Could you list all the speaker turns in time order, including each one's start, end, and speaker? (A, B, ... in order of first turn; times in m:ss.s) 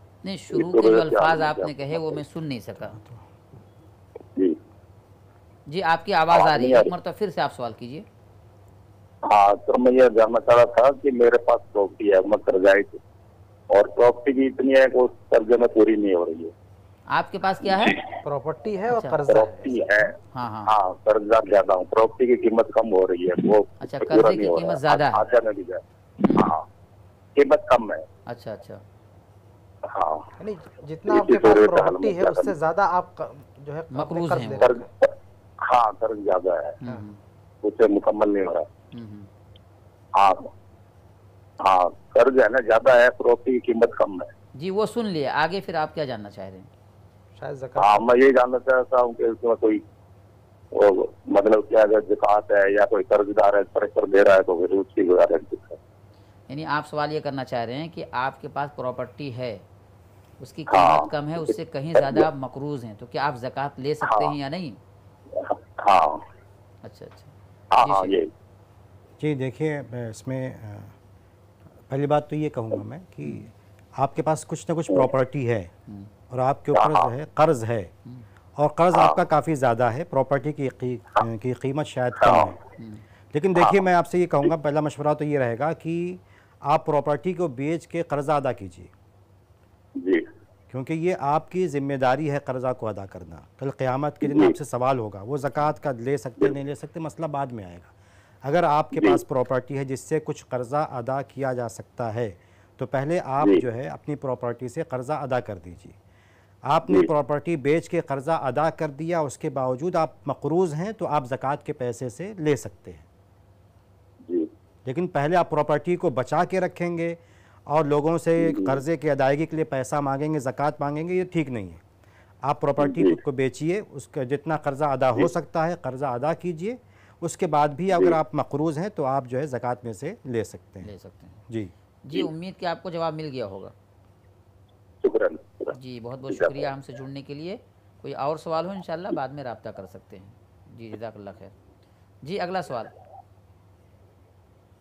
0:00.2-0:03.0 A
0:00.5-0:02.2 B
0:02.8-0:03.2 C
0:05.7-0:08.0 A
0:06.3-0:06.9 B
0:09.3-0:13.0 B
0:13.7-0:16.5 B
0:17.1-0:18.0 A
0:18.2-0:20.1 D
0:18.9-0:19.2 A
0:19.3-0:20.2 B
0:20.3-0:20.7 A
0:20.7-0:26.6 B
0:23.8-0:25.2 A
0:26.2-0:26.5 A
0:27.4-0:28.0 B
0:28.3-0:28.8 A
0:29.9-0:30.3 B
0:30.4-0:34.9 D
0:31.1-0:32.5 B
0:33.9-0:34.7 A
0:34.6-0:35.1 B
0:35.6-0:36.8 B
0:36.8-0:37.2 A
0:37.6-0:38.7 B
0:38.9-0:39.3 A
0:40.2-0:40.5 B
0:41.6-0:44.3 B
0:44.6-0:46.7 A
0:47.4-0:48.0 D
0:47.8-0:49.8 B
0:50.7-0:55.8 B
0:56.5-0:59.6 A
1:00.4-1:04.8 A
1:00.7-1:02.3 B
1:04.0-1:04.3 B
1:05.4-1:06.2 B
1:06.8-1:08.2 A
1:07.7-1:08.3 B
1:09.2-1:10.9 C
1:11.9-1:15.7 C
1:16.3-1:17.9 C
1:16.7-1:17.1 B
1:18.6-1:22.6 C
1:22.2-1:22.5 B
1:22.8-1:23.0 A
1:23.3-1:28.9 C
1:23.6-1:23.8 B
1:30.0-1:30.2 B
1:30.7-1:37.9 C
1:34.2-1:34.6 B
1:38.4-1:46.0 C
1:38.9-1:39.2 B
1:46.7-1:53.0 C
1:54.8-2:01.8 C
1:58.4-1:58.8 B
2:02.4-2:10.9 C
2:02.8-2:03.2 B
2:07.9-2:08.2 B
2:10.8-2:11.4 A
2:12.0-2:13.7 A
2:15.0-2:15.7 B
2:15.7-2:21.5 A
2:16.3-2:16.6 B
2:22.2-2:22.9 A